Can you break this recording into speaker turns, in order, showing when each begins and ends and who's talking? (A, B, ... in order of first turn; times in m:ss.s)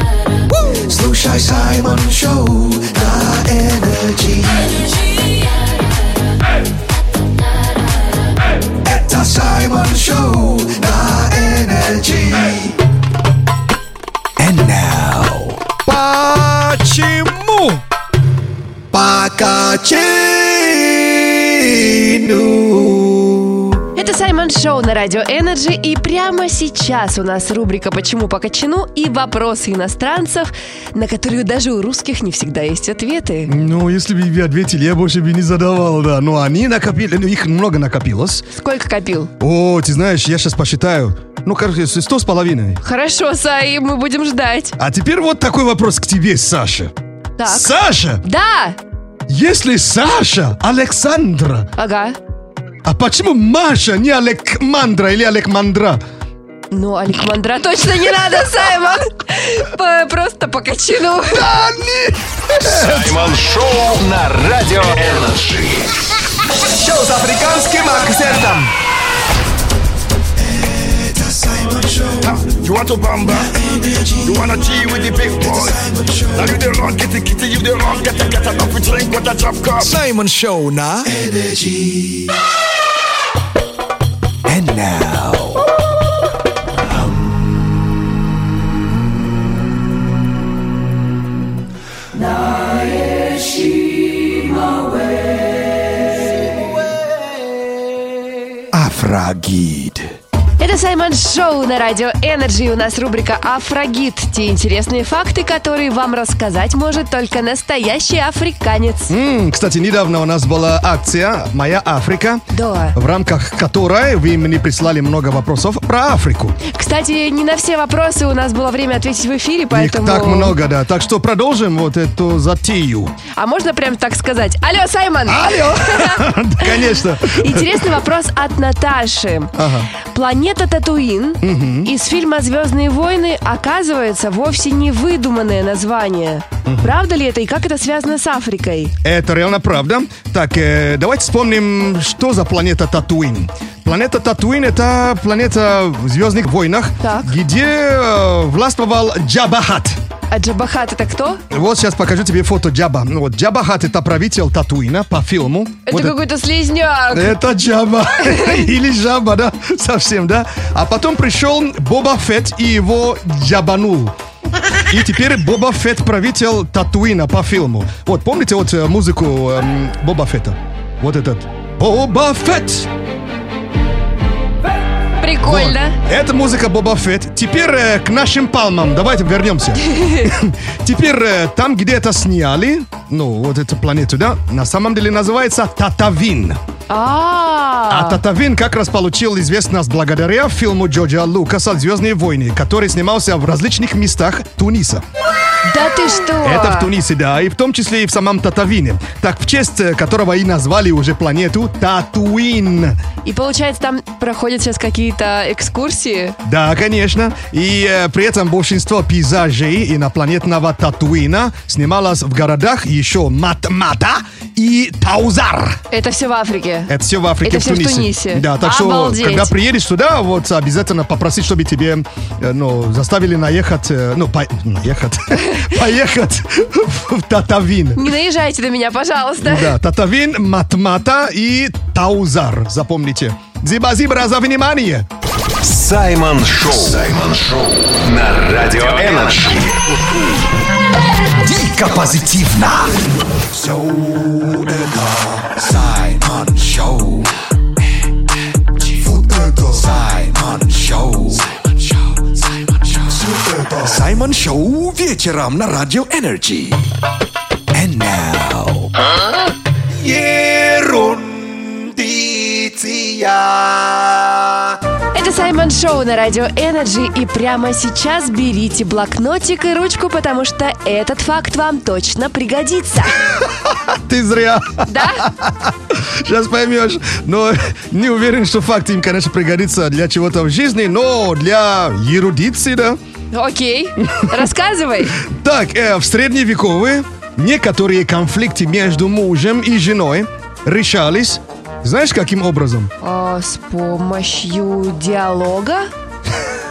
0:00.8-0:04.8 A
0:08.8-0:12.8 A
0:14.4-0:15.6 A
0:15.8-0:17.8 B
0:18.9-0:23.6 A
0:24.0-0:33.5 C
0:33.5-0:38.4 B
0:38.5-0:39.3 C
0:39.4-0:42.8 B
0:42.8-0:44.8 C
0:44.8-0:46.9 B
0:47.4-0:47.7 C
0:47.5-0:48.2 B
0:48.2-0:48.8 C
0:49.3-0:51.7 B
0:51.8-0:52.2 C
0:52.8-0:56.0 B
0:56.7-1:01.4 C
1:01.3-1:03.0 B
1:02.6-1:05.9 D
1:06.7-1:08.7 A
1:10.5-1:12.3 A
1:12.2-1:13.5 E
1:13.5-1:14.3 A
1:14.2-1:15.8 E
1:15.4-1:16.5 A
1:16.4-1:20.0 E
1:19.9-1:22.3 A
1:24.5-1:25.6 A
1:38.7-1:40.0 A
1:40.6-1:49.1 C
1:49.1-1:56.6 B
1:52.5-1:52.9 C
1:56.7-2:00.6 C
1:59.7-2:03.2 B
2:03.3-2:18.9 C
2:05.3-2:07.8 B
2:09.6-2:09.9 B
2:11.4-2:11.9 B
2:16.6-2:16.9 B
2:19.0-2:30.0 B
2:27.0-2:27.3 C
2:30.3-2:31.4 C
2:31.5-2:36.2 B
2:35.8-2:37.3 C
2:37.1-2:44.1 B
2:38.2-2:38.6 C
2:44.9-2:52.9 B
2:55.2-2:56.0 C
2:55.4-3:06.6 B
2:59.9-3:00.3 C
3:06.9-3:08.2 C
3:07.9-3:15.0 B
3:15.6-3:16.9 C
3:16.4-3:23.0 B
3:23.2-3:26.4 C
3:26.4-3:35.8 B
3:35.9-3:36.9 C
3:36.9-3:48.1 B
3:37.4-3:39.5 C
3:48.0-3:49.7 C
3:49.4-3:55.1 B
3:55.6-3:59.8 D
4:01.4-4:02.9 A
4:03.5-4:07.3 A
4:09.0-4:16.8 A
4:17.7-4:18.9 A
4:19.9-4:24.6 A
4:25.1-4:33.2 C
4:33.4-4:43.0 B
4:34.9-4:35.3 C
4:43.3-4:45.2 C
4:45.2-4:52.9 B
4:53.0-4:55.9 C